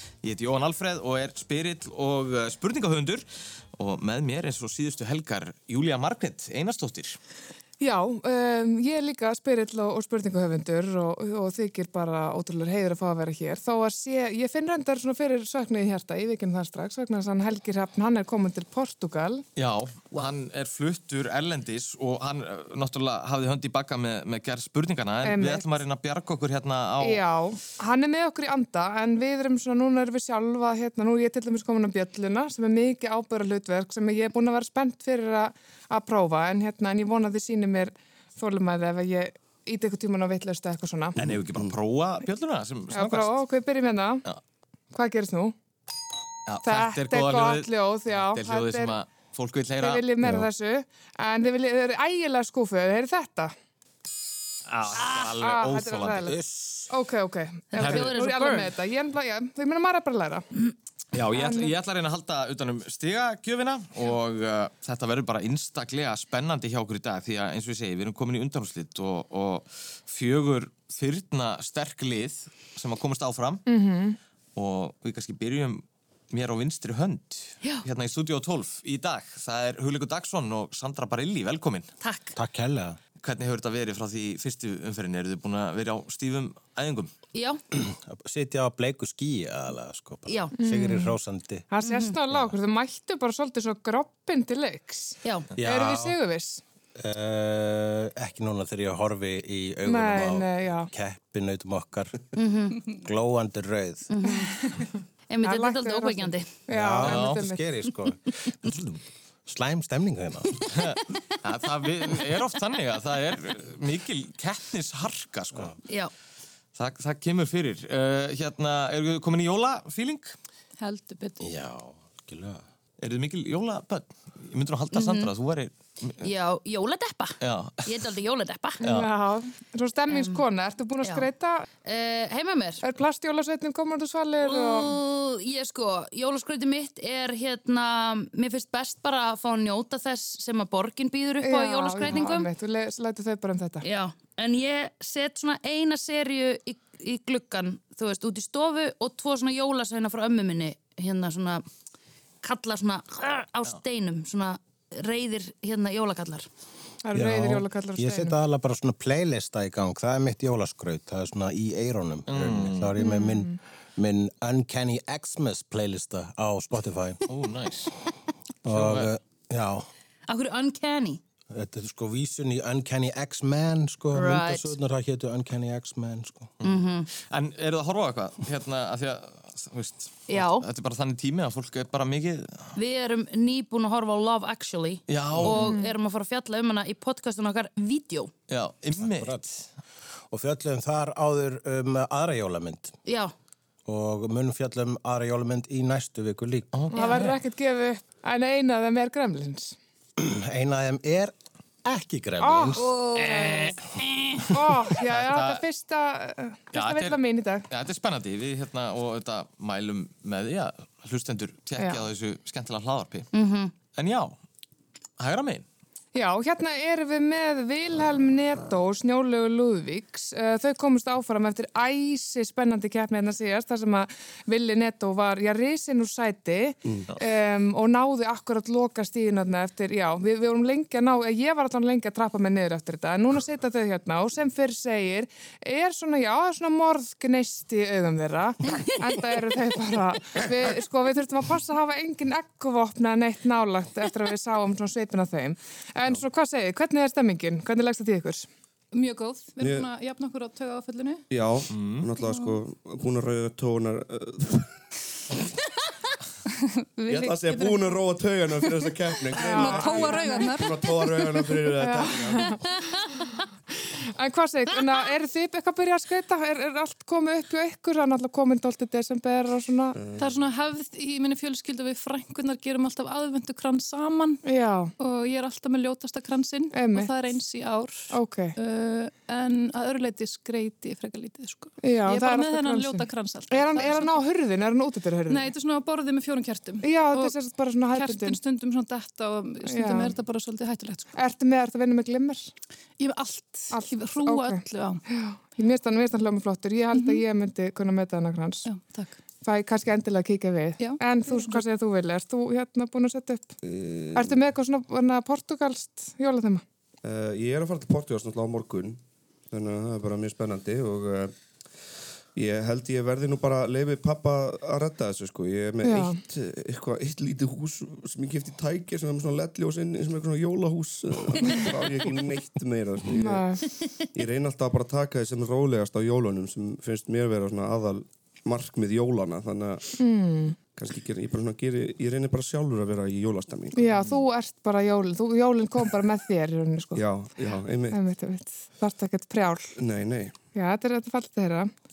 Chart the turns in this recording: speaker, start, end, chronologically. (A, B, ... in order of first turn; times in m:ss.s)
0:00.2-0:03.2 A
0:03.8-0:07.2 A
0:07.8-0:19.4 B
0:19.6-0:27.2 A
0:25.2-0:25.8 B
0:27.0-0:41.2 B
0:41.2-0:43.4 A
0:41.3-0:41.7 C
0:42.9-0:44.2 B
0:44.9-0:45.6 B
0:46.5-0:50.1 A
0:46.6-0:49.0 B
0:49.8-0:53.5 B
0:54.7-0:56.3 A
0:54.9-0:56.4 B
0:56.3-0:56.9 D
0:56.9-1:00.5 B
0:57.7-0:58.7 E
0:57.8-0:58.1 A
1:01.1-1:13.6 A
1:01.3-1:01.7 B
1:13.7-1:14.2 B
1:14.6-1:21.9 A
1:22.0-1:22.4 E
1:22.4-1:23.0 D
1:23.2-1:27.1 A
1:27.3-1:27.6 E
1:27.7-1:31.7 D
1:30.3-1:30.5 E
1:30.6-1:31.1 B
1:31.7-1:36.6 B
1:31.8-1:32.2 E
1:35.2-1:35.5 E
1:35.6-1:36.2 D
1:37.0-1:42.2 D
1:39.8-1:40.9 B
1:42.4-1:42.8 E
1:42.9-1:44.1 D
1:44.1-1:44.6 E
1:45.3-1:46.5 E
1:45.4-1:47.6 B
1:46.7-1:50.6 D
1:47.0-1:47.4 A
1:50.7-1:55.7 A
1:56.8-2:00.4 A
2:00.8-2:01.5 F
2:01.4-2:02.6 D
2:03.0-2:06.3 A
2:04.9-2:05.3 E
2:06.2-2:08.8 E
2:07.4-2:08.0 A
2:08.8-2:09.1 A
2:08.8-2:11.7 B
2:10.1-2:10.4 E
2:11.0-2:11.3 E
2:11.8-2:12.8 E
2:12.8-2:14.9 B
2:14.4-2:22.5 E
2:21.4-2:23.8 B
2:23.8-2:31.6 E
2:32.4-2:36.5 E
2:37.0-2:38.4 B
2:37.1-2:47.2 D
2:42.3-2:42.9 A
2:43.0-2:43.6 B
2:47.3-2:47.9 A
2:48.6-2:49.9 D
2:48.7-2:49.1 A
2:50.3-2:51.2 E
2:51.5-2:56.5 D
2:54.1-2:54.8 E
2:56.6-3:02.7 A
2:56.6-2:57.1 E
3:00.3-3:00.7 E
3:02.8-3:08.3 E
3:05.1-3:05.7 A
3:05.6-3:05.9 B
3:08.5-3:09.4 A
3:09.0-3:09.5 D
3:10.3-3:12.9 D
3:13.1-3:13.3 E
3:13.9-3:16.7 D
3:16.7-3:17.3 A
3:16.9-3:19.8 B
3:20.2-3:23.0 D
3:22.4-3:23.8 B
3:24.5-3:27.7 B
3:25.0-3:25.6 A
3:26.8-3:33.3 A
3:31.8-3:32.0 B
3:33.3-3:33.8 E
3:33.9-3:34.4 A
3:35.2-3:35.6 A
3:36.1-4:08.5 B
4:08.9-4:11.2 F
4:09.6-4:09.9 C
4:11.3-4:14.8 C
4:11.7-4:12.0 A
4:12.2-4:12.6 F
4:16.6-4:18.0 F
4:17.1-4:22.6 C
4:19.3-4:21.6 F
4:19.4-4:20.6 B
4:21.8-4:22.6 B
4:24.0-4:30.0 B
4:30.0-4:30.4 C
4:30.2-4:34.4 F
4:34.4-4:34.9 B
4:35.0-4:44.2 F
4:36.7-4:37.1 B
4:38.1-4:38.6 B
4:41.8-4:45.5 B
4:45.3-4:47.4 F
4:46.8-4:48.4 B
4:47.9-4:51.1 F
4:49.6-4:50.1 B
4:51.2-4:52.5 B
4:53.0-4:55.0 F
4:53.7-4:58.7 B
4:56.9-4:57.2 F
4:58.6-4:59.1 F
4:59.4-5:03.6 B
5:00.8-5:01.6 F
5:03.6-5:04.4 C
5:04.2-5:06.6 B
5:07.0-5:09.0 C
5:09.5-5:11.3 C
5:12.4-5:23.6 C
5:15.8-5:16.2 B
5:23.1-5:23.6 B
5:24.1-5:29.9 C
5:30.0-5:30.6 B
5:30.7-5:33.8 C
5:33.8-5:37.0 B
5:37.0-5:38.0 C
5:37.9-5:39.7 B
5:39.8-5:40.4 C
5:40.5-5:41.7 B